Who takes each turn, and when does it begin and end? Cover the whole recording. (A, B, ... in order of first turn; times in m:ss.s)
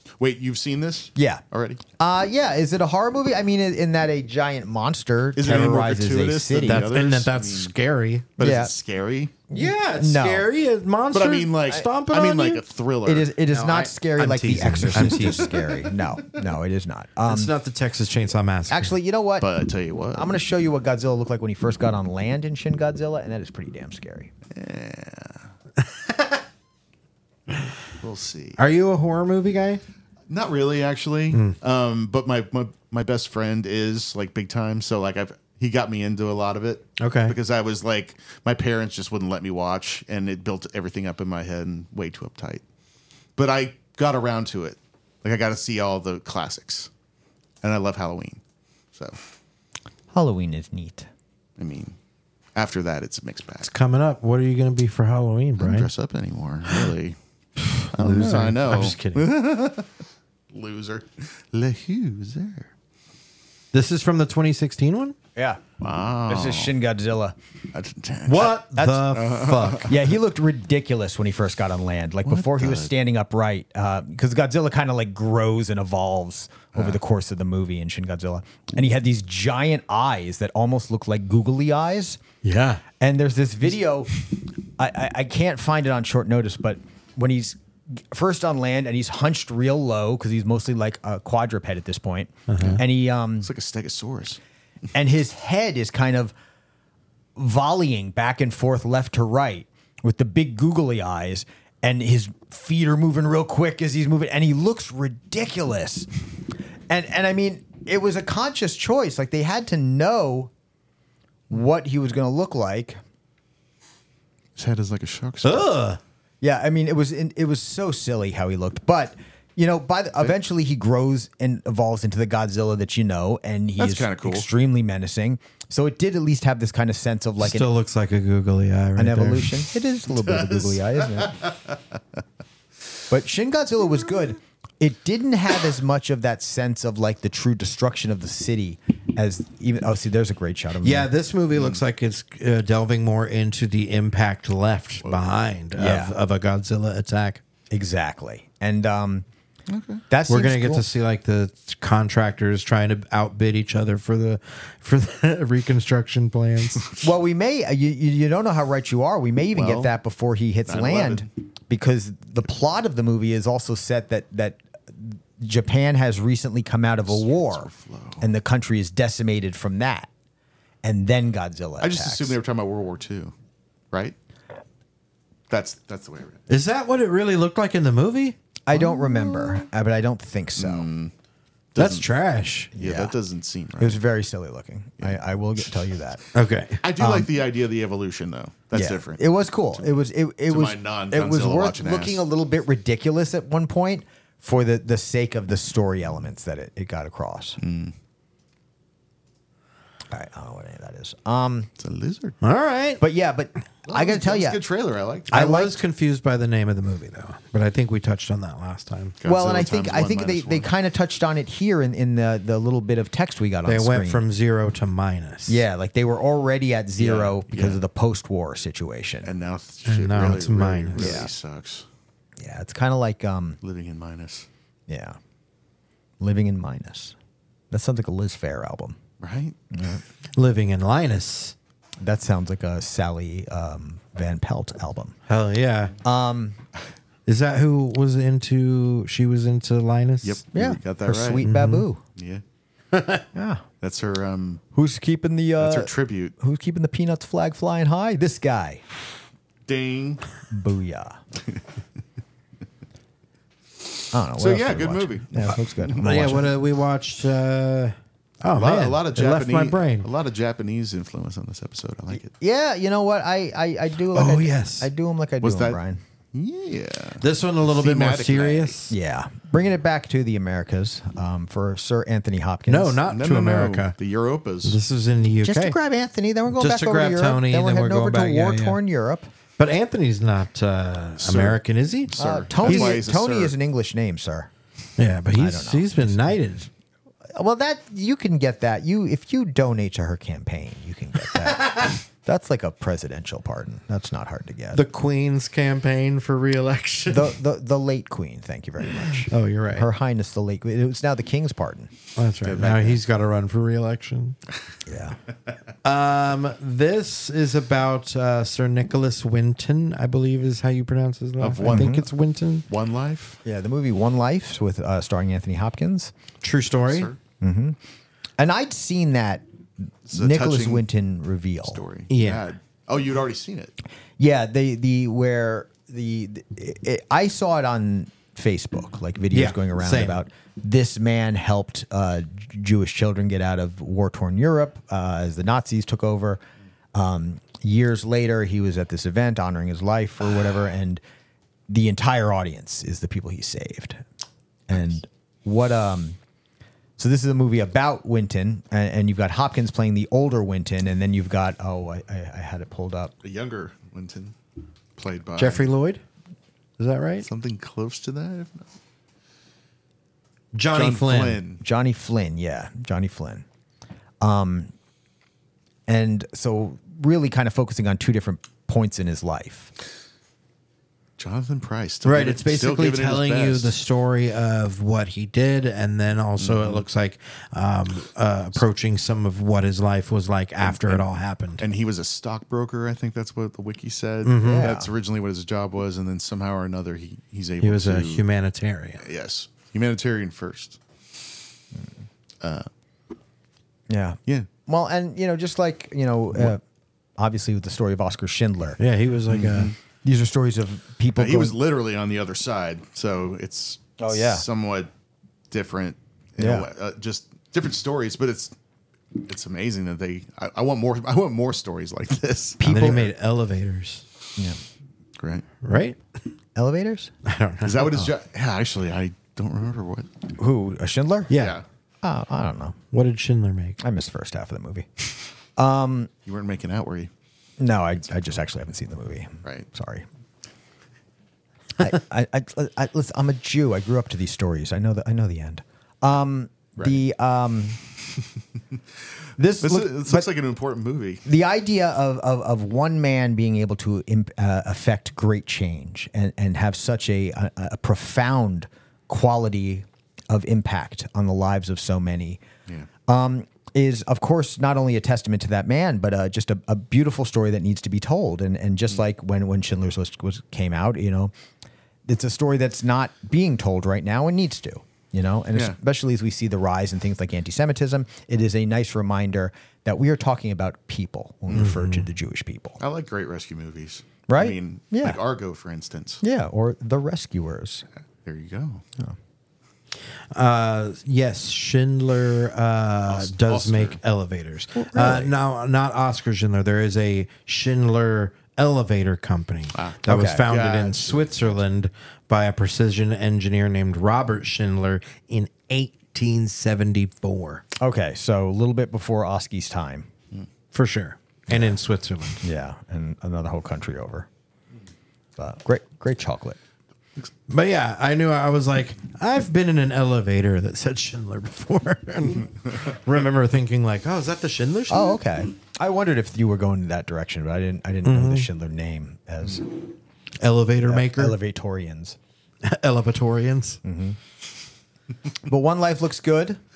0:00.2-0:01.8 A
0:01.2-0:01.4 B
0:02.0-0:06.9 B
0:05.4-0:07.7 A
0:06.6-0:08.3 C
0:08.4-0:09.4 A
0:08.4-0:08.7 B
0:09.5-0:12.6 C
0:09.6-0:10.5 B
0:11.1-0:13.3 A
0:13.0-0:17.5 B
0:13.5-0:15.6 C
0:15.0-0:15.9 A
0:17.3-0:18.9 C
0:18.7-0:19.5 B
0:19.4-0:20.4 A
0:20.1-0:24.3 B
0:24.5-0:25.5 A
0:25.8-0:26.4 C
0:28.0-0:28.6 A
0:28.6-0:29.8 C
0:30.3-0:42.6 A
0:37.0-0:37.4 C
0:43.4-0:46.9 A
0:47.6-0:48.4 A
0:50.1-0:51.1 B
0:51.6-0:52.0 A
0:52.6-0:53.7 A
0:53.6-0:55.9 C
0:55.6-0:57.2 A
0:57.7-0:59.3 C
0:57.9-0:59.9 A
1:00.5-1:02.7 A
1:03.7-1:05.2 C
1:05.4-1:05.6 B
1:05.8-1:06.7 A
1:06.3-1:07.4 B
1:07.7-1:08.6 A
1:08.3-1:09.9 C
1:08.6-1:09.1 B
1:09.1-1:10.0 A
1:09.9-1:22.2 B
1:12.3-1:12.9 A
1:22.4-1:22.8 C
1:23.0-1:24.1 B
1:24.8-1:33.5 B
1:32.5-1:32.8 C
1:33.4-1:34.4 A
1:34.9-1:36.3 B
1:37.4-1:46.1 B
1:46.9-1:50.5 B
1:51.5-1:53.0 B
1:54.6-1:55.7 A
1:55.4-1:56.0 C
1:56.4-2:07.7 B
2:03.8-2:04.5 A
2:07.4-2:09.6 C
2:09.0-2:11.4 B
2:10.1-2:11.8 A
2:13.1-2:21.1 B
2:20.8-2:27.4 C
2:25.0-2:25.3 A
2:25.8-2:26.2 B
2:27.7-2:29.3 B
2:29.7-2:30.0 A
2:30.1-2:30.9 B
2:30.3-2:36.9 C
2:37.0-2:47.7 B
2:39.5-2:39.9 A
2:40.7-2:41.3 A
2:47.1-2:48.3 A
2:48.2-2:50.1 B
2:50.8-2:52.4 B
2:51.8-2:53.3 A
2:55.5-2:56.4 A
2:56.5-2:58.4 C
2:58.7-3:00.9 B
2:58.8-2:59.6 A
3:00.6-3:01.1 A
3:01.8-3:02.1 A
3:01.8-3:02.7 C
3:02.8-3:03.2 B
3:02.8-3:04.0 A
3:03.8-3:06.2 B
3:05.0-3:05.8 A
3:06.3-3:06.8 C
3:06.8-3:09.2 A
3:07.0-3:07.3 B
3:08.7-3:17.6 B
3:09.8-3:12.2 A
3:17.6-3:17.9 A
3:20.1-3:21.7 B
3:21.8-3:22.4 A
3:22.4-3:23.0 C
3:23.0-3:24.6 B
3:23.9-3:25.4 A
3:25.3-3:25.8 B
3:25.3-3:29.2 C
3:29.2-3:30.7 A
3:29.2-3:34.2 B
3:33.6-3:35.6 C
3:35.5-3:39.3 B
3:37.0-3:37.8 A
3:39.2-3:41.9 A
3:39.9-3:41.2 C
3:41.0-3:41.3 B
3:42.4-3:43.6 B
3:43.6-3:44.5 A
3:44.9-3:45.2 B
3:46.2-3:47.2 B
3:47.7-3:49.0 B
3:49.2-3:49.6 A
3:49.7-3:50.0 B
3:50.4-3:51.6 C
3:52.0-3:55.2 B
3:55.3-3:55.9 C
3:56.0-3:56.6 B
3:57.3-4:00.4 C
4:00.2-4:01.4 A
4:00.5-4:02.0 B
4:01.4-4:01.9 C
4:02.2-4:02.4 A
4:02.9-4:03.2 C
4:03.3-4:03.6 B
4:03.8-4:04.6 A
4:04.7-4:08.8 B
4:05.6-4:06.4 A
4:09.7-4:10.2 A
4:10.5-4:11.2 B
4:14.1-4:16.5 B
4:14.4-4:16.4 A
4:16.0-4:20.1 C
4:18.6-4:22.3 A
4:22.3-4:26.0 B
4:24.1-4:24.9 C
4:25.4-4:25.8 A
4:26.3-4:28.8 A
4:27.2-4:28.9 C
4:28.9-4:33.0 B
4:32.7-4:34.0 C
4:33.1-4:34.8 A
4:34.6-4:35.8 C
4:35.4-4:39.3 B
4:36.6-4:38.8 C
4:39.6-4:42.1 C
4:41.2-4:43.5 A
4:42.2-4:44.5 B
4:42.6-4:43.0 C
4:45.0-4:46.7 C
4:45.3-4:46.4 B
4:47.3-4:54.8 B
4:51.6-4:51.9 C
4:54.7-4:57.4 C
4:57.1-5:01.9 B
4:59.1-4:59.9 C
5:02.2-5:04.4 C
5:02.4-5:02.9 A
5:04.9-5:05.2 B
5:05.8-5:12.6 C
5:11.4-5:12.1 A
5:11.7-5:12.0 B
5:12.7-5:13.4 A
5:13.4-5:16.1 B
5:16.4-5:17.1 C
5:16.9-5:17.2 A
5:17.4-5:17.8 B
5:18.4-5:19.4 B
5:20.1-5:21.8 B
5:20.1-5:20.8 A
5:21.7-5:23.7 A
5:22.1-5:22.5 C
5:24.2-5:36.4 B
5:29.3-5:30.2 C
5:36.9-5:41.0 B
5:41.7-5:44.0 B
5:44.7-5:46.2 B
5:47.0-5:53.1 B
5:53.2-5:54.4 A
5:55.0-5:55.7 A
5:55.4-5:56.0 C
5:56.8-5:57.3 C
5:57.2-5:58.7 A
6:00.5-6:01.4 C
6:00.7-6:01.6 A
6:01.6-6:03.4 B
6:04.2-6:04.7 B
6:05.9-6:09.7 B
6:11.2-6:13.7 A
6:12.0-6:21.6 C
6:16.4-6:16.8 A
6:20.6-6:21.0 A
6:21.6-6:28.2 A
6:24.2-6:24.7 C
6:24.4-6:24.9 B
6:27.6-6:29.0 C
6:29.0-6:30.8 A
6:32.4-6:32.7 A
6:33.9-6:36.6 B
6:37.2-6:38.8 B
6:38.8-6:39.7 C
6:39.3-6:39.8 A
6:40.0-6:41.6 B
6:41.2-6:44.9 A
6:44.0-6:44.5 B
6:45.5-6:48.5 A
6:46.4-6:46.7 B
6:49.2-6:52.9 A
6:52.6-6:53.1 B
6:52.6-6:54.0 C
6:55.2-6:55.5 A
6:55.6-6:56.0 C
6:56.6-6:57.1 B
6:57.2-6:58.1 C
6:57.6-7:00.1 A
7:00.4-7:01.3 B
7:01.3-7:01.6 C
7:01.3-7:01.6 A
7:02.0-7:02.8 B
7:02.9-7:03.8 C
7:03.8-7:04.9 B
7:05.6-7:06.1 B
7:06.3-7:07.1 A
7:07.6-7:10.1 B
7:11.8-7:17.8 B
7:19.4-7:20.3 B
7:19.6-7:21.2 A
7:21.2-7:32.4 B
7:33.1-7:41.3 B
7:42.1-7:52.8 B
7:51.5-7:52.1 C
7:52.8-7:56.2 A
7:54.3-7:55.2 B
7:56.2-7:57.8 B
7:58.2-7:58.8 A
8:00.3-8:17.6 C
8:03.1-8:04.0 A
8:04.8-8:05.3 B
8:09.7-8:11.6 A
8:10.1-8:10.5 B
8:17.8-8:20.1 B
8:20.7-8:22.4 C
8:21.5-8:21.8 B
8:22.4-8:24.3 B
8:25.4-8:26.6 B
8:27.5-8:35.2 C
8:34.9-8:39.8 B
8:38.0-8:38.5 C
8:40.4-8:41.4 C
8:40.8-8:42.2 B
8:42.6-8:43.8 C
8:43.8-8:44.2 B
8:45.5-8:46.6 B